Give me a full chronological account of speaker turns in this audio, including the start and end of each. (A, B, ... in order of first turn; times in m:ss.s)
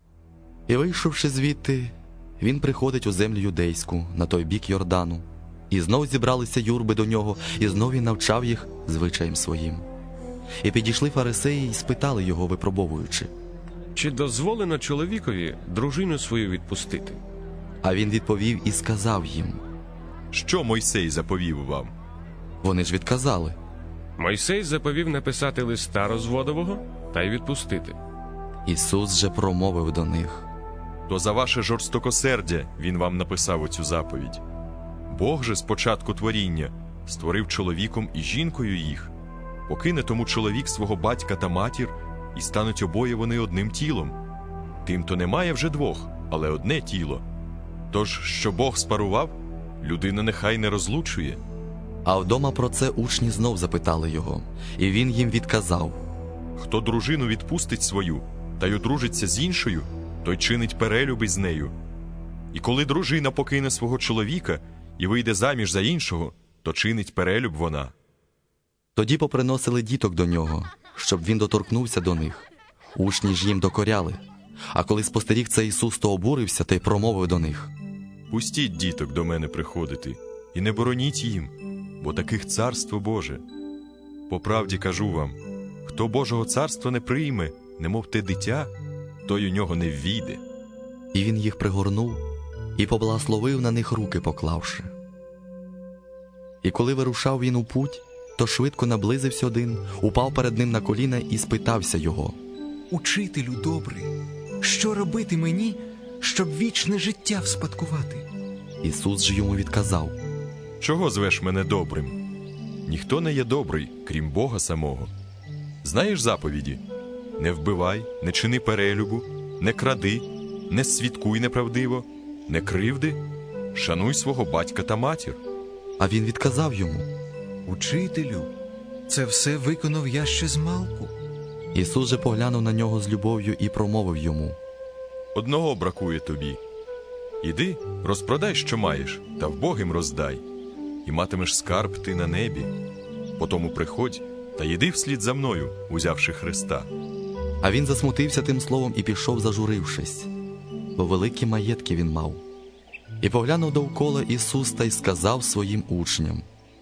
0:00.7-0:09.9 A
0:10.6-0:13.3 A
0:14.0-0:17.2 B
0:17.8-0:19.6 A
0:20.3-0:21.9 C
0:22.6-0:23.6 A
0:24.2-0:28.0 B
0:28.7-0:30.5 A
0:31.1-0:34.4 C
0:35.1-0:39.1 C
0:39.7-0:44.2 C
0:44.8-0:47.2 C
0:47.9-0:51.4 C
0:52.0-0:56.0 A
0:56.6-1:01.7 C
1:02.5-1:07.9 C
1:09.0-1:17.7 A
1:18.3-1:23.4 C
1:24.3-1:28.7 C
1:29.3-1:30.4 C
1:31.1-1:32.2 A
1:32.8-1:34.9 A
1:36.6-1:42.4 A
1:42.9-1:48.3 D
1:48.8-1:50.2 A
1:50.8-1:52.2 C
1:52.9-1:55.1 C
1:55.8-1:56.8 C
1:57.4-2:03.2 C
2:03.8-2:05.4 C
2:06.0-2:07.1 A
2:07.7-2:08.5 D
2:09.1-2:11.1 D
2:11.7-2:14.6 A
2:15.4-2:16.6 C
2:17.4-2:20.4 C
2:21.0-2:22.7 C
2:23.4-2:26.9 C
2:27.6-2:30.3 A
2:31.0-2:32.4 A
2:33.2-2:36.5 A